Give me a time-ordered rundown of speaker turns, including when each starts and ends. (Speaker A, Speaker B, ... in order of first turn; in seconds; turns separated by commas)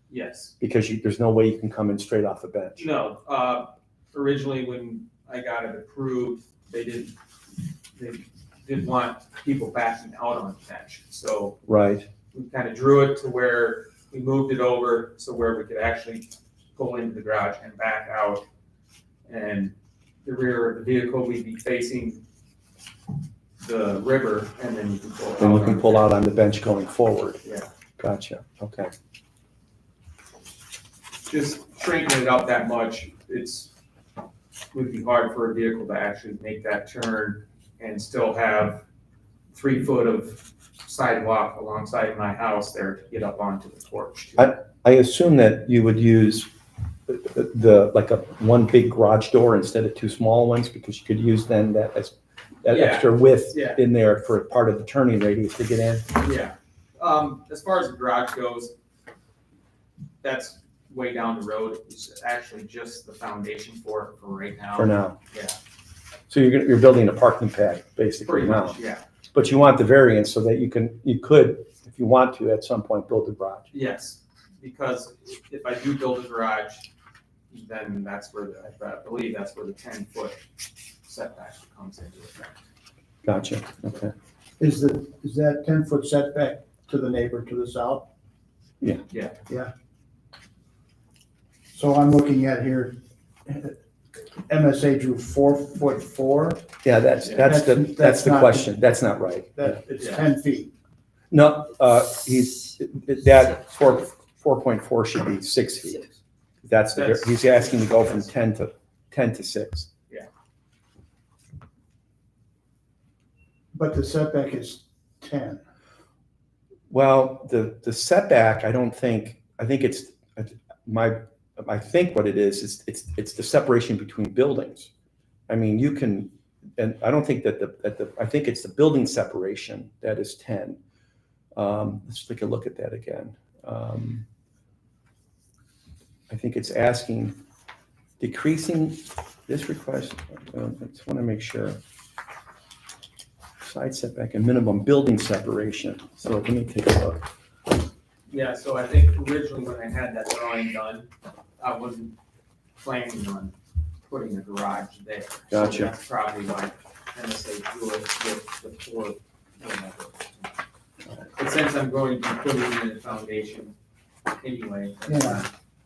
Speaker A: 0.1-0.5, Speaker B: 0.6-2.9, Speaker A: 2.8-7.1, Speaker A: 8.0-11.6, Speaker B: 11.7-12.1, Speaker A: 12.3-18.4, Speaker A: 19.3-19.7, Speaker A: 20.2-22.2, Speaker A: 23.6-26.1, Speaker B: 25.4-27.4, Speaker B: 28.0-28.9, Speaker A: 31.3-33.7, Speaker A: 34.7-38.8, Speaker A: 39.5-44.5, Speaker B: 44.4-46.5, Speaker B: 47.1-56.1, Speaker A: 52.7-53.8, Speaker A: 56.2-58.7, Speaker A: 60.2-65.6, Speaker B: 64.8-65.2, Speaker B: 66.3-68.8, Speaker A: 68.2-69.0, Speaker B: 69.3-73.7, Speaker A: 73.7-76.9, Speaker A: 77.5-80.4, Speaker A: 81.0-82.6, Speaker B: 83.2-84.1, Speaker C: 84.6-88.1, Speaker A: 89.1-89.3, Speaker C: 91.7-93.8, Speaker C: 94.5-96.6, Speaker B: 96.8-99.8, Speaker A: 97.2-97.5, Speaker C: 97.4-98.7, Speaker C: 99.6-100.7, Speaker A: 99.9-100.2, Speaker B: 101.3-109.9, Speaker A: 106.9-108.3, Speaker C: 113.7-115.6, Speaker B: 116.9-124.9, Speaker B: 125.5-130.8, Speaker B: 131.6-134.2, Speaker B: 136.3-137.4, Speaker B: 138.2-141.8, Speaker B: 143.6-147.2, Speaker A: 148.3-152.2, Speaker A: 152.8-153.5, Speaker A: 154.1-160.6, Speaker B: 155.5-155.9, Speaker A: 161.4-163.8, Speaker A: 164.4-165.5, Speaker C: 165.1-165.4